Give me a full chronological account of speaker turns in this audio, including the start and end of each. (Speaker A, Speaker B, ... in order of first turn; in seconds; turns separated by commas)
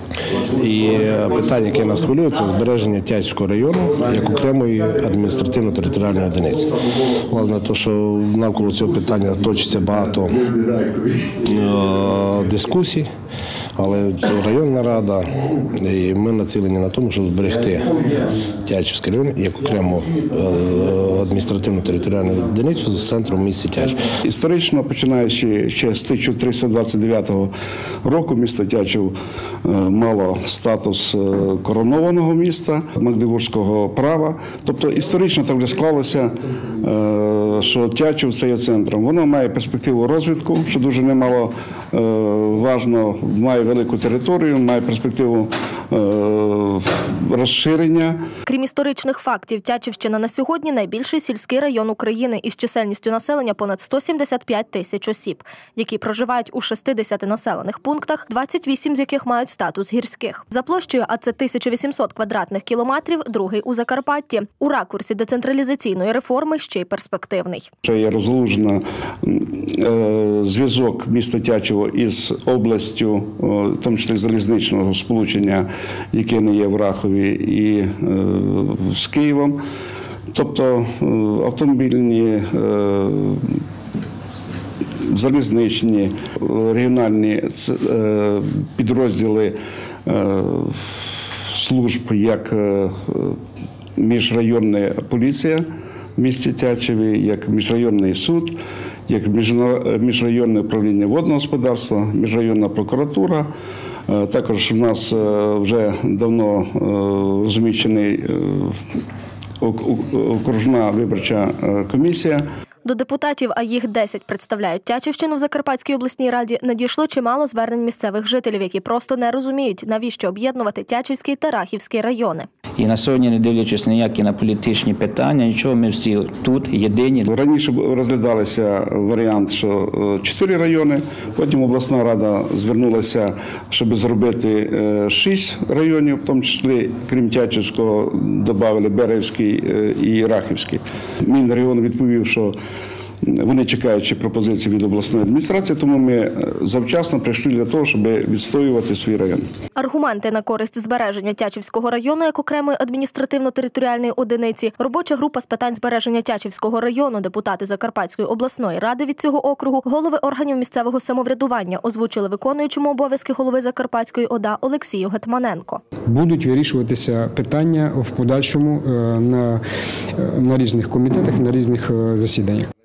Speaker A: 0.3-10.5, Speaker A: 11.3-13.1, Speaker A: 13.8-24.1, Speaker B: 24.2-27.5, Speaker B: 28.0-48.2, Speaker C: 48.5-67.7, Speaker B: 67.8-79.6, Speaker B: 80.3-83.6, Speaker B: 85.0-89.5, Speaker B: 90.1-93.4, Speaker B: 94.0-95.6, Speaker B: 96.2-103.5, Speaker B: 104.1-108.8, Speaker B: 109.6-112.4, Speaker C: 112.8-122.5, Speaker D: 122.8-127.3, Speaker B: 127.3-142.5, Speaker B: 143.2-149.4, Speaker C: 149.8-165.8, Speaker E: 166.1-169.6, Speaker E: 170.2-172.7